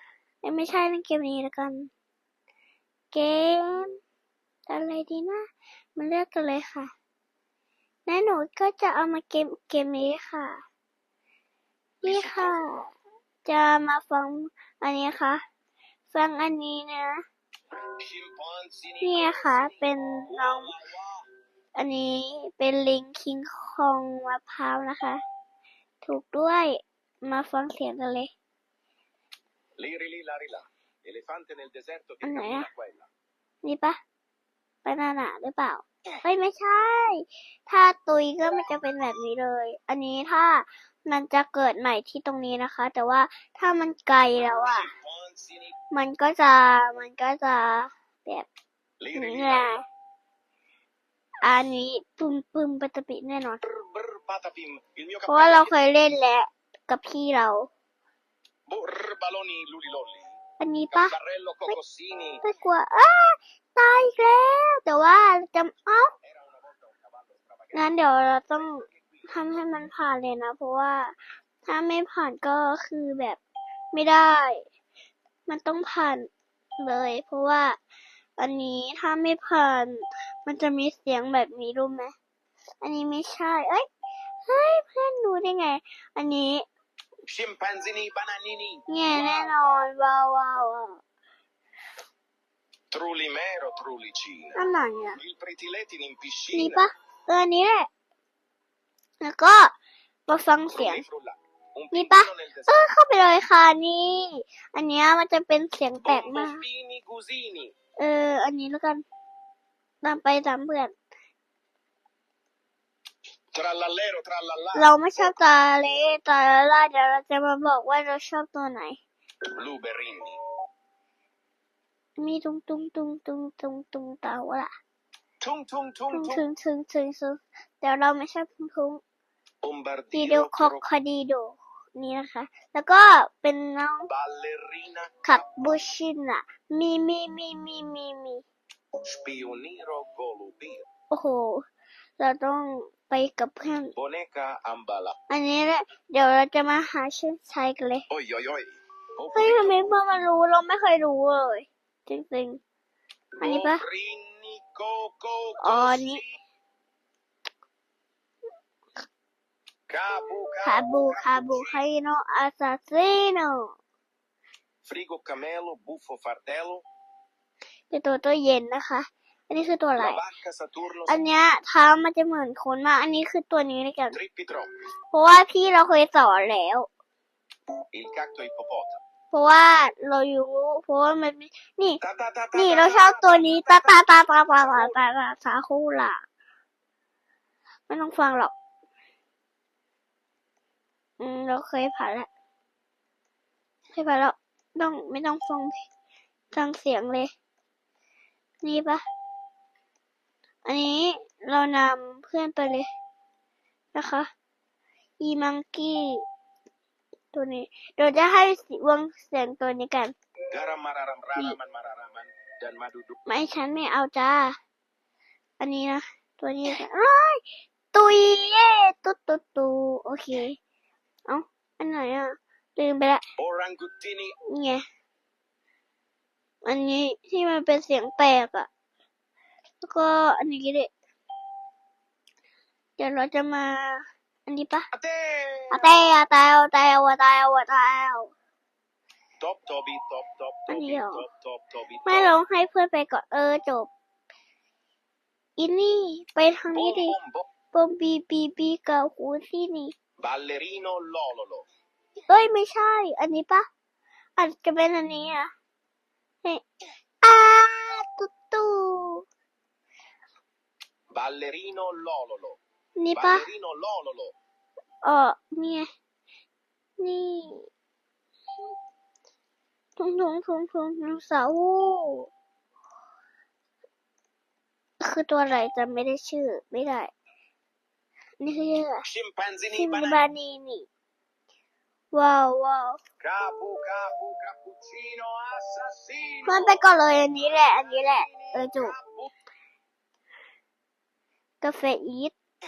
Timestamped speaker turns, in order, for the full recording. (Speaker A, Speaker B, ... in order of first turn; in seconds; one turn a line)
Speaker A: 0.4-1.9
Speaker A: 3.1-4.0
Speaker A: 4.7-5.4
Speaker A: 6.0-6.9
Speaker A: 8.1-10.6
Speaker A: 12.0-12.9
Speaker B: 12.0-12.7
Speaker A: 13.4-15.4
Speaker A: 16.1-17.2
Speaker B: 18.0-21.3
Speaker A: 19.0-20.7
Speaker A: 21.8-25.2
Speaker A: 26.0-28.3
Speaker B: 29.8-33.1
Speaker A: 32.2-32.7
Speaker A: 33.6-34.0
Speaker A: 34.8-44.9
Speaker B: 44.6-45.7
Speaker A: 45.9-48.5
Speaker B: 49.0-49.7
Speaker A: 49.1-49.8
Speaker A: 51.4-53.6
Speaker B: 53.6-55.7
Speaker A: 55.3-57.7
Speaker B: 58.7-60.4
Speaker A: 60.6-61.1
Speaker B: 60.9-62.4
Speaker A: 62.4-66.1
Speaker B: 66.2-68.0
Speaker A: 67.7-73.4
Speaker B: 68.6-69.4
Speaker A: 73.9-74.6
Speaker A: 75.5-77.8
Speaker A: 78.4-82.1
Speaker A: 82.8-83.8
Speaker A: 84.5-86.7
Speaker B: 87.2-89.5
Speaker A: 88.9-91.0
Speaker B: 92.9-94.6
Speaker A: 94.5-95.2
Speaker B: 95.2-96.8
Speaker A: 96.5-97.9
Speaker A: 99.2-99.7
Speaker A: 100.3-101.0
Speaker B: 100.7-102.9
Speaker A: 101.9-106.6
Speaker B: 106.0-107.7
Speaker A: 108.0-109.0
Speaker A: 110.0-110.9
Speaker B: 113.5-115.3
Speaker A: 114.7-119.0
Speaker B: 119.5-120.4
Speaker A: 122.2-124.7
Speaker B: 125.4-126.4
Speaker A: 126.1-129.0
Speaker B: 129.6-130.9
Speaker A: 130.1-134.1
Speaker B: 134.1-135.4
Speaker A: 135.2-138.4
Speaker B: 139.0-140.9
Speaker A: 141.1-141.6
Speaker A: 142.2-143.9
Speaker B: 143.9-145.2
Speaker A: 145.3-148.1
Speaker B: 148.1-149.8
Speaker A: 149.3-152.6
Speaker B: 153.4-156.4
Speaker A: 153.4-153.8
Speaker A: 155.6-156.2
Speaker B: 159.9-161.8
Speaker A: 160.6-163.7
Speaker B: 164.8-166.8
Speaker A: 167.9-170.2
Speaker B: 170.0-171.2
Speaker A: 171.1-174.2
Speaker B: 174.1-174.7
Speaker A: 175.1-176.9
Speaker B: 177.9-179.0
Speaker A: 179.3-182.0
Speaker B: 182.0-185.0
Speaker A: 182.5-186.2
Speaker A: 187.9-188.5
Speaker A: 191.2-192.3
Speaker A: 193.9-195.8
Speaker A: 196.5-197.3
Speaker A: 198.6-199.0
Speaker A: 200.6-202.9
Speaker A: 203.9-204.3
Speaker A: 205.2-206.2
Speaker A: 207.3-210.1
Speaker B: 210.5-213.2
Speaker A: 213.3-214.5
Speaker A: 215.6-220.6
Speaker A: 221.3-223.2
Speaker B: 223.4-224.3
Speaker A: 224.5-224.8
Speaker A: 226.6-228.7
Speaker A: 229.8-230.9
Speaker A: 233.0-234.9
Speaker B: 234.9-236.0
Speaker A: 235.7-238.3
Speaker B: 239.4-242.3
Speaker A: 240.7-241.2
Speaker A: 242.1-243.9
Speaker A: 245.6-247.2
Speaker B: 246.7-247.5
Speaker A: 247.7-249.9
Speaker B: 250.2-251.6
Speaker A: 252.3-253.7
Speaker A: 254.4-255.5
Speaker A: 257.2-259.2
Speaker B: 261.1-262.6
Speaker A: 263.0-263.4
Speaker B: 263.1-264.3
Speaker A: 265.0-265.9
Speaker A: 267.0-267.7
Speaker A: 270.0-272.3
Speaker A: 275.0-277.1
Speaker A: 278.4-279.0
Speaker B: 279.0-280.2
Speaker A: 279.8-280.9
Speaker A: 282.1-283.0
Speaker B: 283.2-286.8
Speaker A: 286.4-288.9
Speaker B: 287.4-289.3
Speaker A: 291.6-292.3